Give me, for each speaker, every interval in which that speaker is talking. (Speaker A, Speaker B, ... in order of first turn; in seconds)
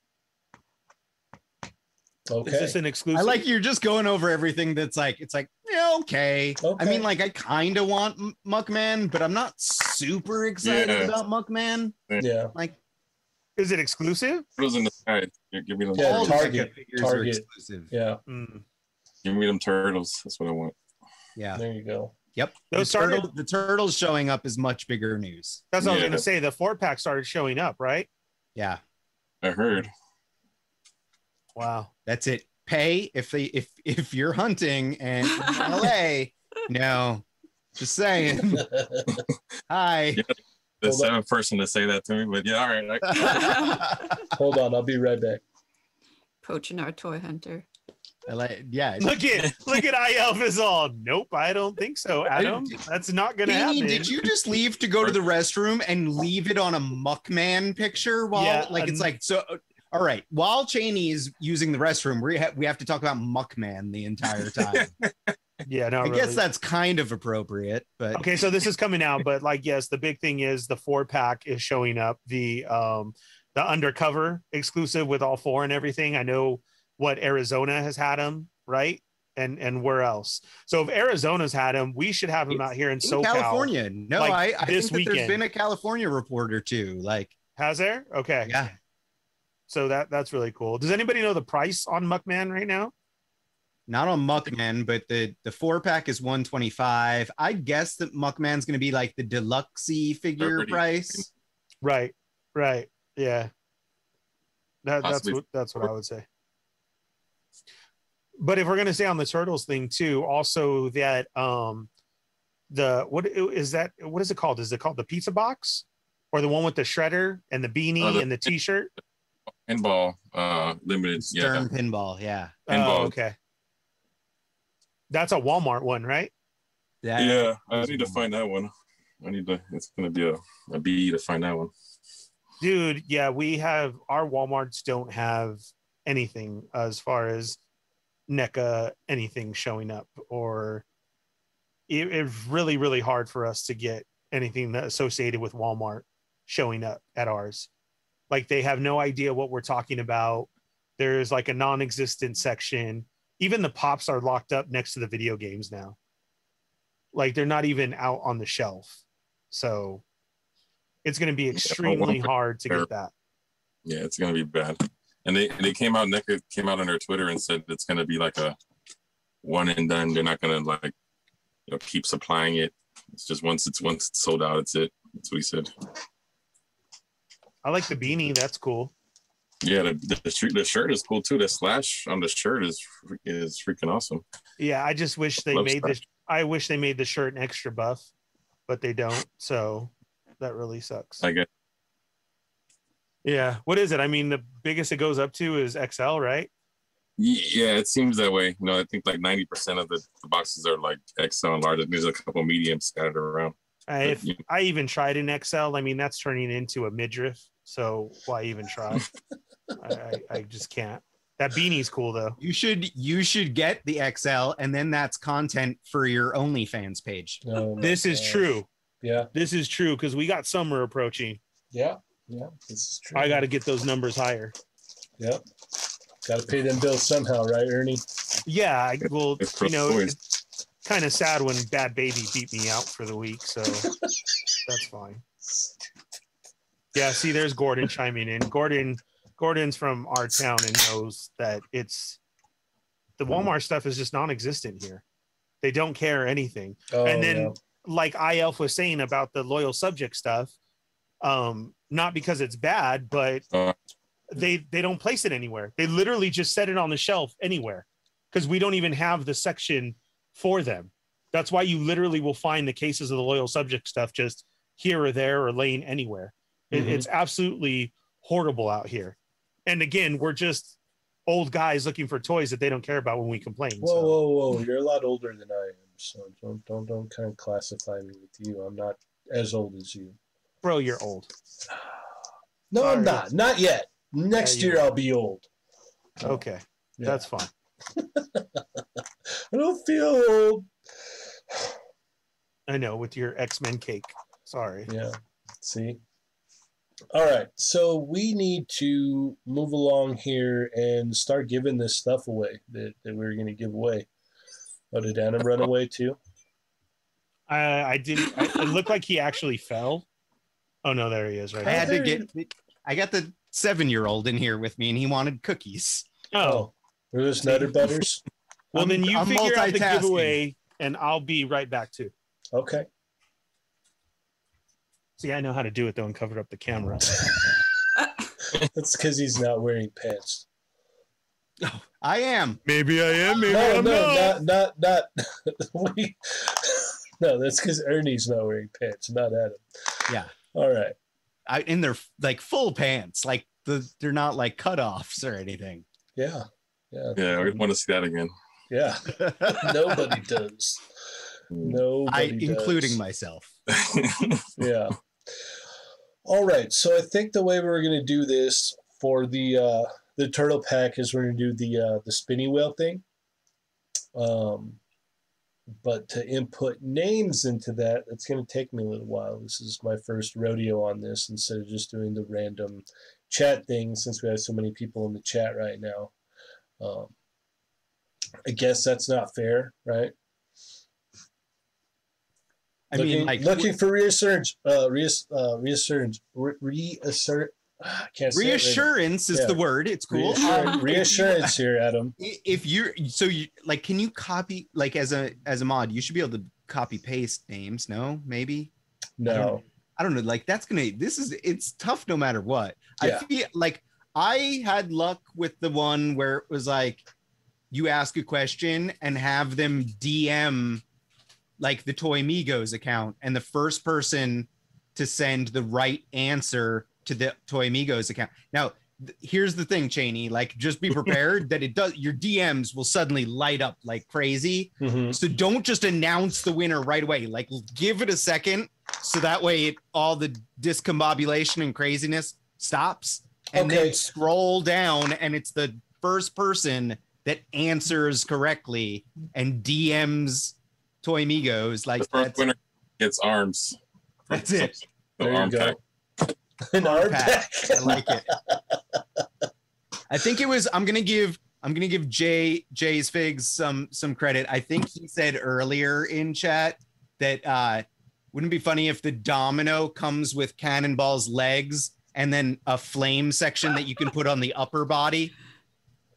Speaker A: 2.3-2.8, 6.6-7.1, 12.2-12.5, 15.9-18.2, 21.6-22.1, 38.6-39.2, 40.9-41.1, 44.3-45.4, 217.4-218.5, 219.0-219.3, 221.7-223.5, 226.2-228.0, 246.9-247.6, 266.7-267.1, 273.8-280.2, 282.7-285.5, 288.0-288.6, 289.5-290.7, 294.9-296.0, 297.1-304.1, 304.9-306.2, 311.6-312.2, 316.4-318.2, 322.5-322.9, 328.6-330.4, 333.5-340.9, 346.2-347.6, 348.7-350.8, 351.6-353.0, 354.6-355.0, 356.2-363.0, 364.1-364.8, 365.8-376.1, 376.8-377.1, 378.5-380.1, 382.9-389.6, 390.1-392.1, 399.2-399.6, 403.0-403.3, 424.8-425.2, 433.6-434.0, 445.2-445.8, 446.7-448.6
Speaker B: 2.4-3.4, 13.6-14.4, 18.3-18.6, 22.7-23.3, 25.7-28.1, 31.6-31.9, 49.0-54.1, 58.3-59.1, 65.7-66.4, 68.1-85.4, 87.6-88.6, 89.7-92.9, 101.8-103.5, 104.8-106.3, 108.4-111.9, 112.7-118.9, 122.7-123.4, 125.1-126.3, 132.6-137.6, 138.3-140.8, 141.9-147.7, 148.3-156.0, 157.1-160.0, 161.1-163.1, 177.6-178.9, 184.6-188.1, 188.7-191.2, 193.2-196.5, 203.9-209.1, 209.8-212.4, 217.8-218.7, 219.3-221.4, 223.1-224.5, 228.5-230.2, 230.8-233.9, 234.7-235.2, 236.9-242.2, 243.2-245.0, 245.6-250.5, 251.2-253.4, 254.3-270.8, 271.3-274.2, 280.6-281.3, 282.8-283.2, 284.4-284.9, 286.2-287.5, 292.7-294.9, 307.5-310.1, 310.8-311.9, 316.3-316.7, 317.5-317.7, 318.7-322.1, 325.2-327.3, 332.7-334.4
Speaker C: 3.1-12.0, 16.0-17.9, 21.4-21.6, 22.4-25.7, 28.6-28.8, 32.1-37.2, 37.8-38.7, 39.7-40.2, 43.1-44.1, 48.3-49.1, 52.3-52.8, 53.5-64.9, 66.0-68.2, 82.5-87.3, 88.5-88.7, 93.9-101.3, 121.2-122.6, 127.0-128.3, 212.4-217.4, 311.6-316.1, 318.7-320.4, 331.6-332.6, 340.1-340.3, 341.5-345.9, 349.2-349.9, 352.1-353.5, 382.9-383.7, 388.3-391.6, 392.2-398.7, 399.3-407.0, 407.7-410.8, 411.6-442.4, 444.3-444.8, 446.8-448.3, 450.1-465.3
Speaker D: 10.6-11.1, 14.6-16.6, 19.2-20.8, 25.8-26.2, 29.4-29.9, 40.2-43.8, 100.4-101.3, 105.0-105.4, 118.0-118.3, 119.7-121.7, 122.7-123.1, 127.2-131.7, 161.6-162.9, 163.9-168.6, 169.4-170.9, 171.7-175.7, 179.6-184.2, 185.5-186.0, 197.2-204.4, 229.4-230.2, 347.2-348.3, 351.5-351.8, 353.7-354.5, 442.0-443.8, 444.3-445.8
Speaker E: 43.2-43.9, 46.4-47.6, 390.4-391.1